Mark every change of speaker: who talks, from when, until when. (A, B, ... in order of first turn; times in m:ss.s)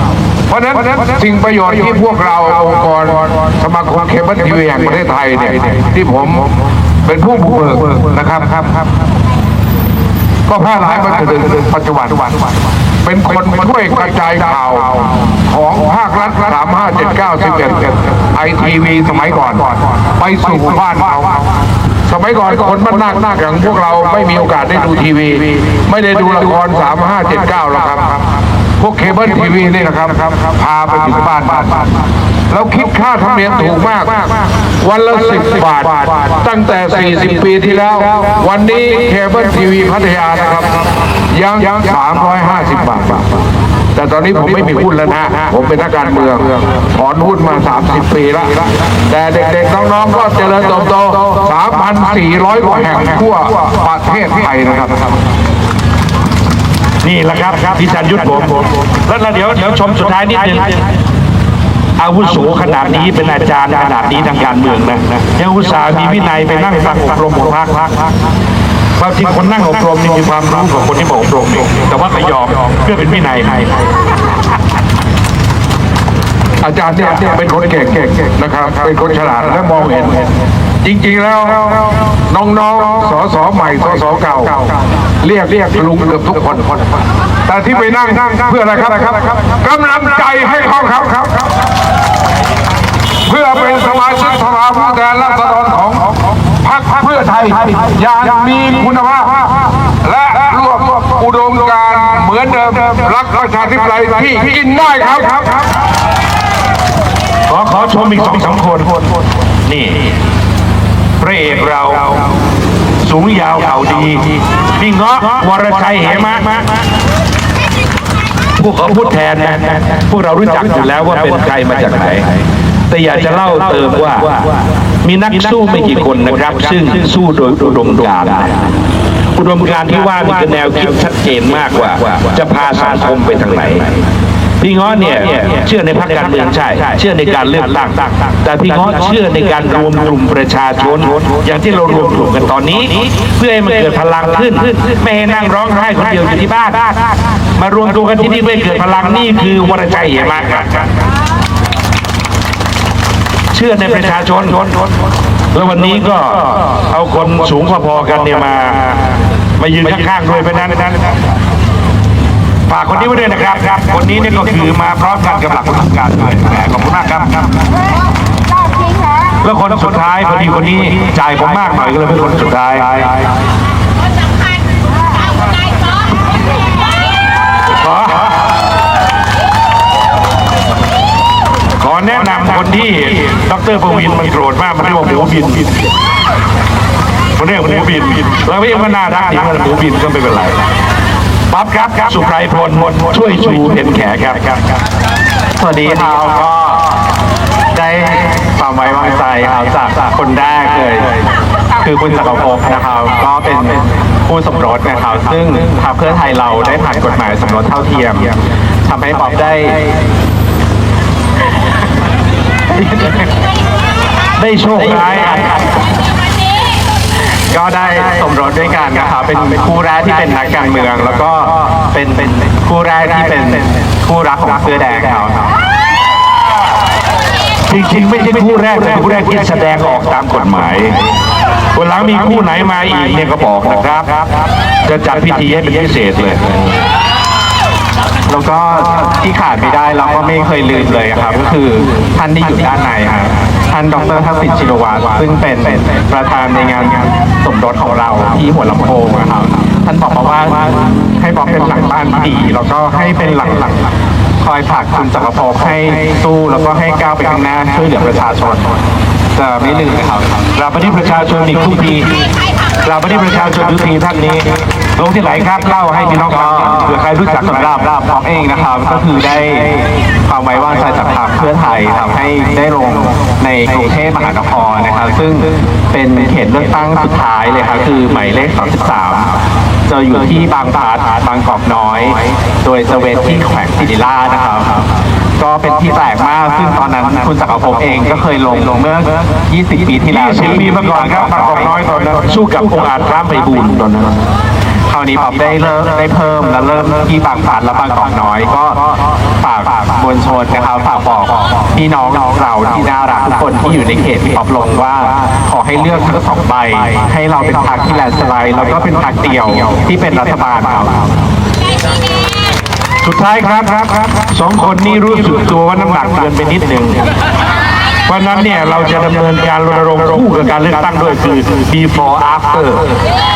0:00.5-0:06.5 A
0:07.0-0:08.7 A
0:10.5-0:12.4 A
0:13.0-0:21.4 A
0:22.1-0:28.2 A
0:28.8-0:31.8 A
0:32.5-0:34.3 A
0:34.8-0:40.8 A
0:41.3-0:43.3 A
0:44.0-0:55.1 A
0:57.0-1:00.8 B
1:02.0-1:07.9 B
1:09.0-1:13.8 B
1:16.6-1:20.3 A
1:20.8-1:24.7 A
1:25.2-1:26.8 A
1:27.5-1:31.5 A
1:33.3-1:39.5 A
1:40.0-1:45.6 A
1:47.5-1:49.0 B
1:49.7-1:50.1 B
1:51.2-1:52.3 B
1:53.0-1:56.7 B
1:58.6-2:04.5 B
2:05.0-2:08.7 B
2:09.4-2:14.0 B
2:14.6-2:30.9 B
2:33.5-2:34.8 B
2:35.5-2:39.0 B
2:39.6-2:41.1 B
2:42.7-2:47.5 B
2:49.4-2:53.2 B
2:57.7-2:58.3 B
3:01.8-3:05.8 B
3:07.4-3:10.6 B
3:11.5-3:14.6 B
3:15.6-3:16.9 C
3:17.7-3:21.2 C
3:21.8-3:30.0 C
3:34.4-3:35.5 B
3:37.5-3:45.5 C
3:47.7-3:51.0 B
3:51.7-3:54.2 B
3:54.8-3:56.7 B
3:58.3-4:13.9 C
4:14.4-4:18.7 C
4:19.3-4:20.4 C
4:20.6-4:22.1 B
4:22.8-4:27.8 B
4:26.2-4:44.9 C
4:45.4-4:51.7 C
4:50.1-4:54.2 B
4:54.9-5:11.1 C
5:13.0-5:17.0 B
5:18.1-5:22.8 B